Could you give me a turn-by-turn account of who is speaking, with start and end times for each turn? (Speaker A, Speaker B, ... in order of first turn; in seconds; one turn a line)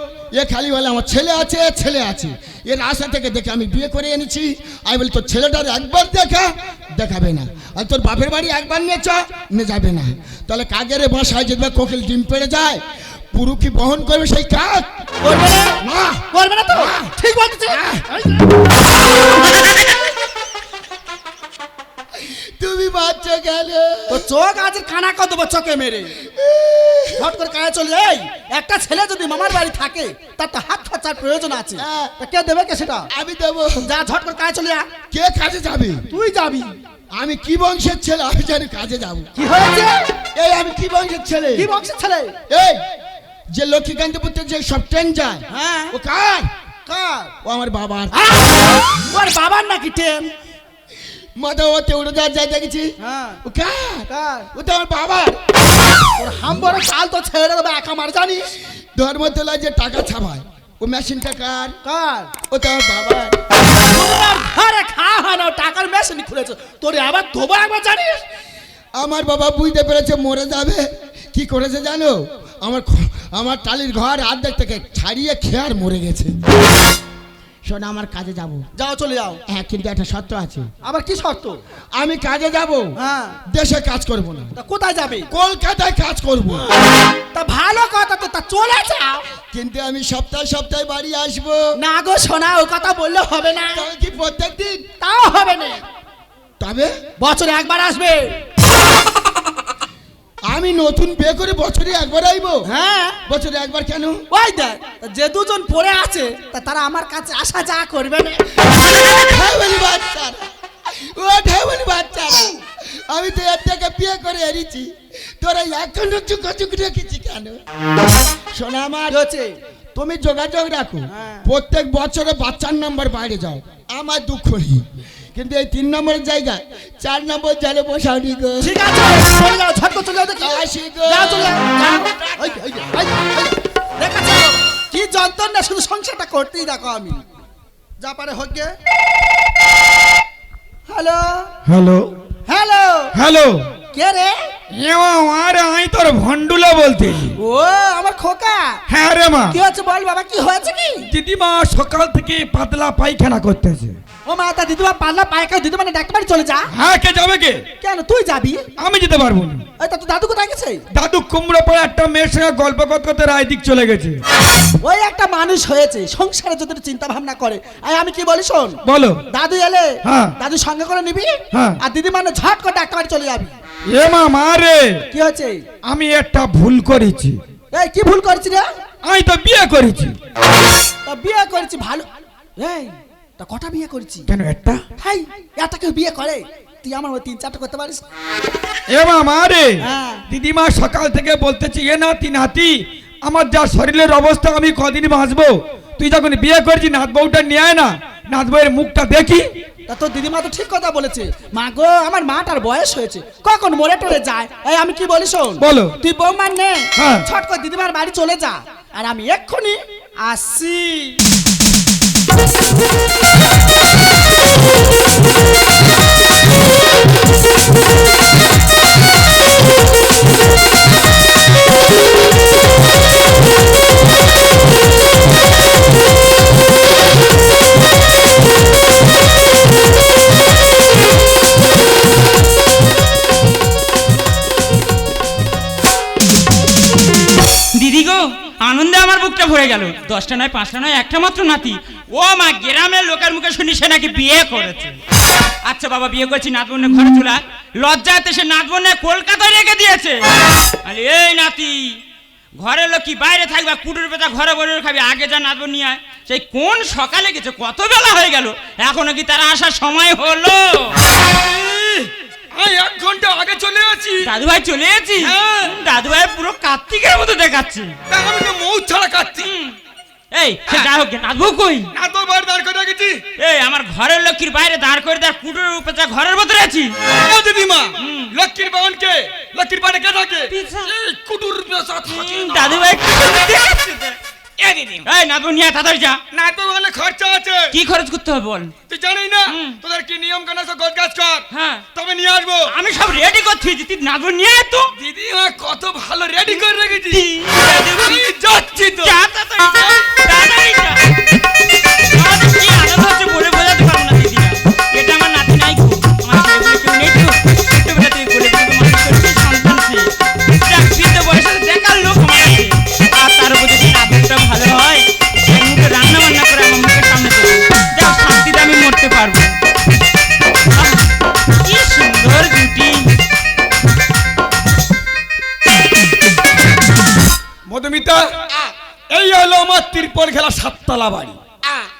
Speaker A: 0.3-14.9
Speaker B: 15.2-15.8
Speaker A: 15.8-16.3
Speaker B: 16.3-18.4
Speaker A: 17.7-18.0
Speaker A: 22.2-24.2
Speaker B: 24.1-26.1
Speaker A: 26.2-27.2
Speaker B: 27.1-33.1
Speaker A: 31.8-32.1
Speaker A: 33.1-33.9
Speaker B: 33.8-34.9
Speaker A: 35.1-36.0
Speaker B: 36.1-36.8
Speaker A: 37.2-39.3
Speaker B: 39.4-40.1
Speaker A: 40.3-41.7
Speaker B: 41.5-42.3
Speaker A: 42.5-42.8
Speaker A: 43.5-46.5
Speaker B: 45.5-46.0
Speaker B: 46.9-47.3
Speaker A: 47.4-48.2
Speaker B: 48.1-50.3
Speaker A: 51.4-52.9
Speaker B: 53.0-53.4
Speaker A: 53.4-55.4
Speaker B: 54.1-54.5
Speaker B: 56.2-58.5
Speaker A: 58.9-61.8
Speaker B: 61.8-62.3
Speaker A: 62.5-63.4
Speaker B: 63.8-68.2
Speaker A: 69.0-76.4
Speaker A: 77.7-78.7
Speaker B: 78.8-79.4
Speaker A: 79.5-80.7
Speaker B: 80.8-81.6
Speaker A: 82.0-82.9
Speaker B: 83.0-83.4
Speaker A: 83.5-84.5
Speaker B: 84.6-85.3
Speaker A: 85.3-86.7
Speaker B: 87.3-89.2
Speaker A: 89.5-91.7
Speaker B: 91.8-93.8
Speaker A: 93.7-94.8
Speaker B: 95.0-95.8
Speaker A: 96.6-96.9
Speaker B: 97.2-98.4
Speaker A: 100.5-102.7
Speaker B: 102.7-103.2
Speaker A: 103.3-104.2
Speaker B: 104.3-108.4
Speaker A: 108.8-117.6
Speaker A: 118.5-119.2
Speaker B: 119.1-119.5
Speaker A: 119.9-128.7
Speaker B: 121.1-121.5
Speaker B: 128.6-137.2
Speaker A: 130.4-131.5
Speaker B: 138.0-138.7
Speaker B: 140.9-141.5
Speaker C: 141.7-142.1
Speaker B: 142.5-143.1
Speaker C: 143.1-143.7
Speaker B: 143.9-144.3
Speaker C: 144.7-147.4
Speaker B: 147.4-148.8
Speaker C: 148.9-149.6
Speaker B: 149.5-151.0
Speaker C: 151.1-154.0
Speaker B: 154.2-156.6
Speaker C: 156.7-157.6
Speaker B: 157.8-158.6
Speaker C: 158.8-159.6
Speaker B: 159.8-160.8
Speaker C: 160.9-164.2
Speaker B: 164.8-168.8
Speaker C: 168.8-169.2
Speaker B: 169.3-169.9
Speaker C: 170.0-170.3
Speaker B: 170.4-173.5
Speaker C: 171.5-171.8
Speaker C: 173.9-175.0
Speaker B: 175.1-175.6
Speaker C: 175.9-177.4
Speaker B: 177.7-178.6
Speaker C: 179.0-180.2
Speaker B: 181.1-184.2
Speaker C: 184.3-184.8
Speaker B: 185.0-188.0
Speaker C: 188.9-199.4
Speaker B: 189.8-190.2
Speaker B: 199.9-211.2
Speaker C: 205.6-206.0
Speaker C: 207.0-207.2
Speaker D: 237.7-245.0
Speaker D: 245.6-250.2
Speaker D: 250.8-251.9
Speaker D: 252.6-260.9
Speaker C: 261.2-264.3
Speaker D: 264.2-267.9
Speaker C: 265.2-265.8
Speaker C: 268.1-269.5
Speaker D: 269.4-269.7
Speaker D: 270.3-271.9
Speaker C: 271.9-273.2
Speaker D: 273.4-276.9
Speaker C: 277.1-283.0
Speaker D: 278.0-278.3
Speaker D: 280.5-280.9
Speaker D: 282.1-284.2
Speaker C: 284.6-285.1
Speaker D: 285.0-286.2
Speaker C: 286.3-287.7
Speaker D: 287.7-288.7
Speaker C: 288.9-292.7
Speaker D: 289.5-289.8
Speaker D: 291.5-291.8
Speaker D: 292.7-294.9
Speaker C: 294.9-297.2
Speaker D: 297.1-298.2
Speaker C: 297.9-299.1
Speaker D: 298.9-301.0
Speaker C: 299.8-300.0
Speaker D: 302.1-319.5
Speaker D: 320.7-321.0
Speaker D: 321.6-323.1
Speaker C: 327.7-328.2
Speaker C: 329.1-331.4